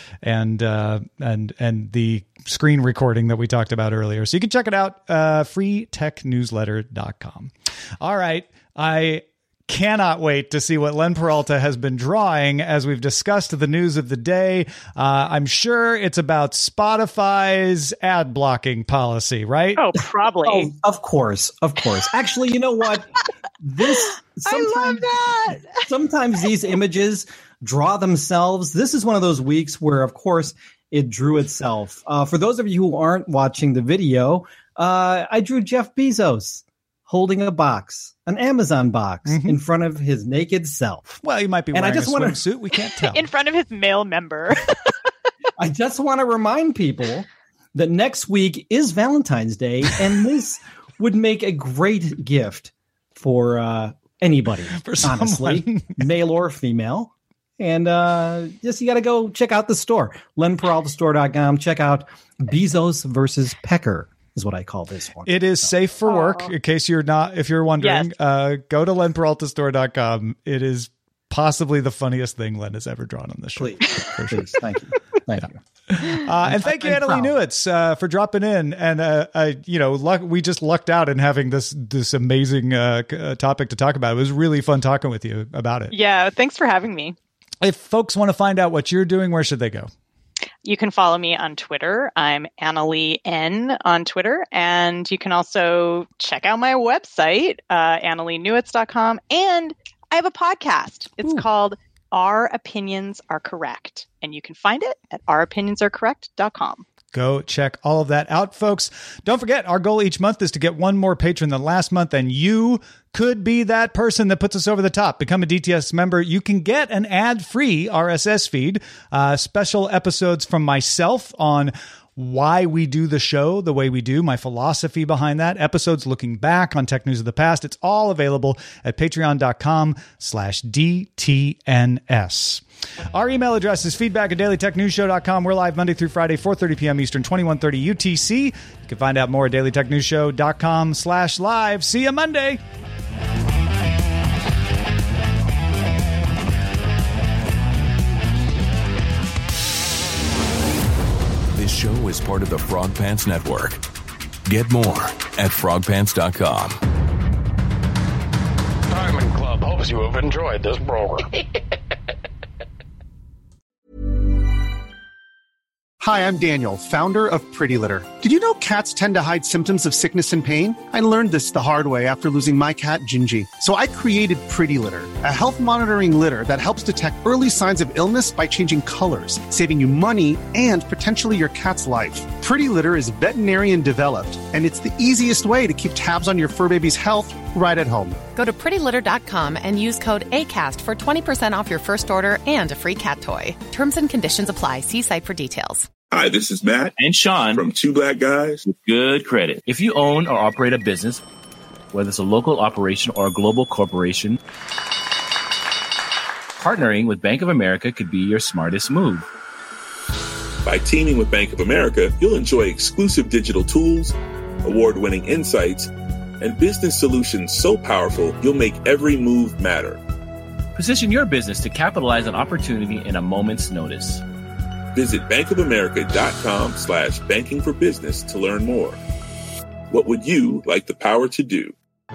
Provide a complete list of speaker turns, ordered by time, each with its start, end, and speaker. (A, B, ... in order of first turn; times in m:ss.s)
0:00.2-0:19.8 A
0:19.8-0:20.7 B
0:20.4-0:23.1 C
0:23.6-0:41.2 C
0:24.4-0:25.8 B
0:39.2-0:39.6 A
0:41.2-0:43.3 A
0:41.7-0:42.4 C
0:43.1-0:44.8 B
0:45.6-1:05.7 C
0:54.7-0:56.0 A
1:05.2-1:14.4 A
1:06.1-1:06.5 B
1:07.8-1:08.1 B
1:13.6-1:15.6 C
1:16.0-1:25.9 A
1:16.4-1:17.3 C
1:25.9-1:27.2 B
1:27.6-1:29.9 A
1:30.6-1:46.8 B
1:47.1-2:22.6 A
2:31.5-2:33.8 D
2:34.4-2:36.8 D
2:38.9-2:41.3 E
2:46.0-3:08.2 F
3:08.3-3:15.9 G
3:16.1-3:17.0 H
3:17.0-3:17.7 I
3:17.5-3:18.6 H
3:18.6-3:21.2 I
3:21.9-3:24.4 I
3:26.6-3:29.3 I
3:30.6-3:40.0 H
3:40.7-3:44.2 I
3:44.9-3:49.0 H
3:49.9-3:51.7 H